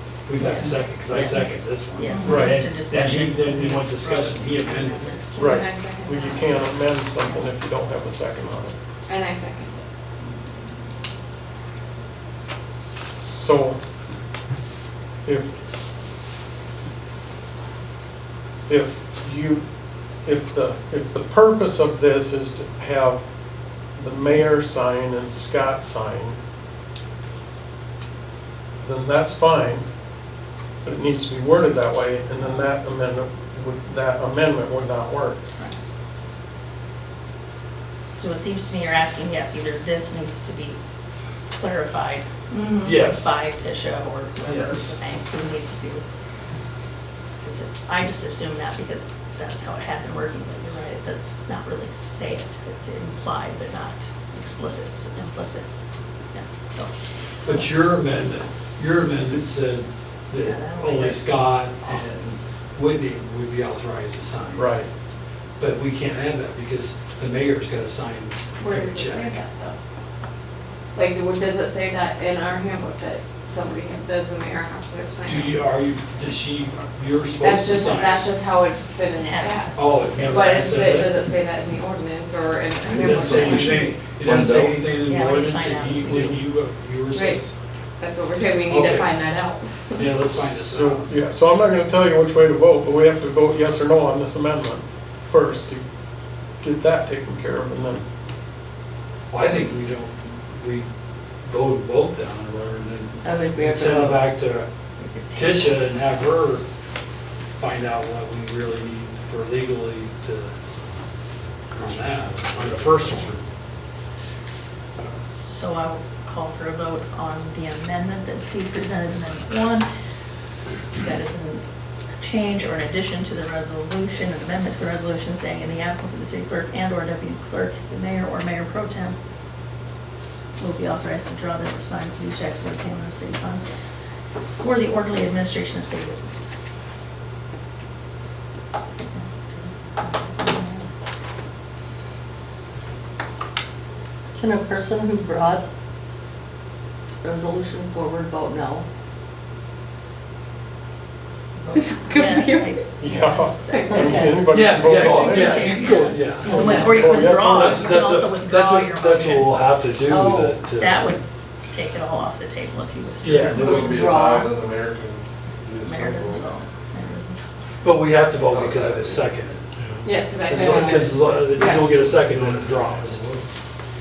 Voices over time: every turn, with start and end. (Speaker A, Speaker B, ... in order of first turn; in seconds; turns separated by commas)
Speaker A: 0.3-5.1, Speaker B: 0.4-5.4, Speaker C: 2.1-2.6, Speaker D: 2.3-2.6, Speaker E: 5.3-6.6, Speaker D: 5.4-8.8, Speaker E: 9.1-9.8, Speaker D: 13.2-13.8, Speaker D: 15.2-15.5, Speaker D: 18.7-19.6, Speaker D: 20.2-23.2, Speaker D: 23.9-26.4, Speaker D: 28.8-29.9, Speaker D: 30.8-35.4, Speaker B: 38.1-40.8, Speaker B: 41.5-42.3, Speaker E: 42.5-42.9, Speaker A: 42.8-43.4, Speaker B: 42.9-46.0, Speaker A: 44.4-44.9, Speaker B: 47.4-55.7, Speaker B: 56.3-56.9, Speaker A: 57.4-64.7, Speaker B: 57.5-57.9, Speaker B: 60.3-62.4, Speaker D: 64.5-64.9, Speaker A: 65.6-69.4, Speaker E: 68.6-69.8, Speaker E: 70.9-75.6, Speaker A: 75.2-78.3, Speaker E: 77.4-84.0, Speaker B: 79.2-81.0, Speaker A: 79.7-81.1, Speaker F: 82.8-84.8, Speaker A: 82.9-87.5, Speaker B: 85.0-86.4, Speaker E: 87.1-87.4, Speaker E: 88.0-90.1, Speaker A: 88.6-89.1, Speaker A: 90.0-91.1, Speaker D: 90.4-95.8, Speaker D: 96.6-98.0, Speaker A: 99.3-100.8, Speaker A: 101.4-104.7, Speaker C: 103.2-104.3, Speaker B: 105.0-105.8, Speaker A: 105.3-106.6, Speaker A: 107.6-110.5, Speaker A: 111.7-113.4, Speaker B: 115.3-119.9, Speaker B: 121.0-121.6, Speaker B: 122.2-129.2, Speaker B: 130.6-133.6, Speaker B: 134.6-136.5, Speaker B: 139.0-140.9, Speaker C: 144.3-145.6, Speaker C: 147.2-148.8, Speaker B: 151.6-159.6, Speaker E: 151.7-152.8, Speaker D: 153.0-157.9, Speaker E: 153.7-153.9, Speaker C: 153.9-154.5, Speaker A: 154.5-161.1, Speaker C: 160.0-160.6, Speaker B: 160.7-163.9, Speaker A: 163.2-164.2, Speaker F: 163.5-166.5, Speaker C: 163.6-164.5, Speaker B: 165.8-167.4, Speaker A: 167.8-169.7, Speaker F: 168.5-169.2, Speaker F: 169.8-170.1, Speaker E: 170.0-172.0, Speaker A: 170.5-173.2, Speaker C: 170.6-171.0, Speaker F: 172.2-173.4